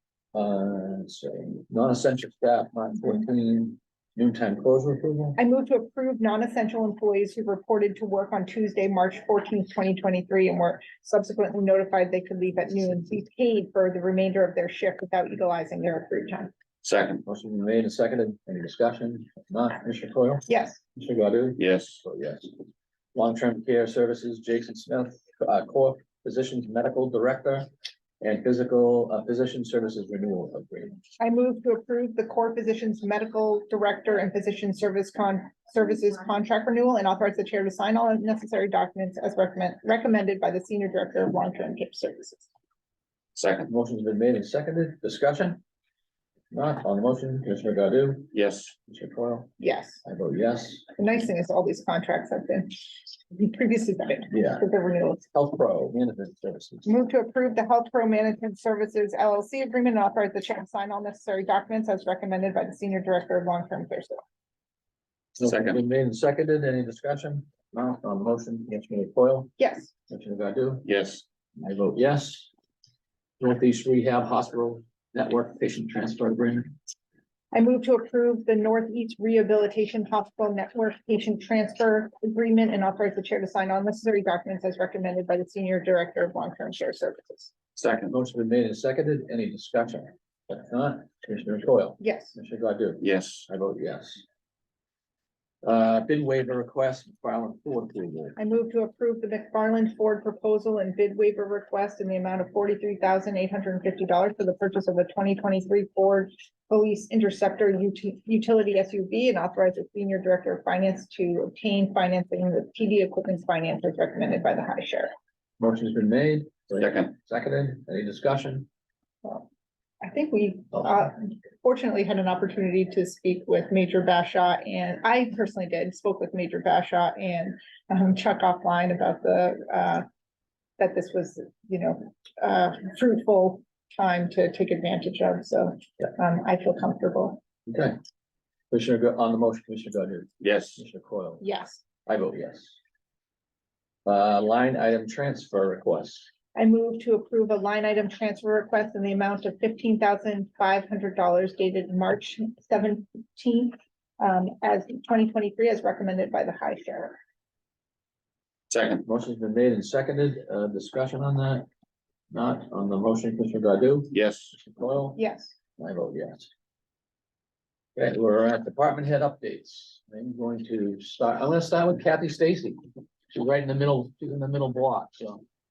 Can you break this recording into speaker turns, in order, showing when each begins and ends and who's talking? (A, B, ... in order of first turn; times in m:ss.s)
0:00.3-0:05.4 A
0:05.4-0:16.5 B
0:16.8-0:17.2 C
0:17.2-0:22.5 A
0:20.5-0:20.8 B
0:21.6-0:22.0 C
0:23.1-0:27.7 A
0:28.2-0:31.0 A
0:31.2-0:42.4 B
0:43.4-0:43.7 C
0:43.7-0:45.6 A
0:46.5-0:48.3 A
0:48.3-0:48.7 C
0:48.9-0:49.5 A
0:49.6-0:50.0 B
0:50.0-0:50.9 A
0:51.0-0:52.8 B
0:53.3-0:55.2 B
0:54.3-0:54.6 A
0:55.3-0:56.9 A
0:56.8-1:04.2 B
1:05.4-1:09.5 A
1:05.4-1:05.8 C
1:09.6-1:09.9 B
1:10.1-1:10.9 A
1:10.8-1:11.2 C
1:11.6-1:12.5 A
1:13.4-1:16.8 A
1:17.5-1:27.5 B
1:27.8-1:28.1 C
1:28.1-1:34.2 A
1:32.0-1:32.3 B
1:33.0-1:33.4 C
1:35.6-1:38.4 A
1:38.4-1:55.1 B
1:55.6-1:58.7 A
1:56.8-1:57.1 C
2:00.0-2:10.0 B
2:10.8-2:17.4 B
2:17.7-2:18.0 A
2:18.7-2:21.4 A
2:20.4-2:20.8 C
2:21.4-2:21.8 B
2:22.0-2:22.8 A
2:24.0-2:26.3 A
2:26.5-2:37.2 B
2:38.7-2:39.0 C
2:39.0-2:41.6 A
2:42.3-2:45.2 A
2:44.1-2:44.5 C
2:45.2-2:45.6 B
2:45.8-2:46.5 A
2:48.0-2:52.8 A
2:53.3-2:55.4 A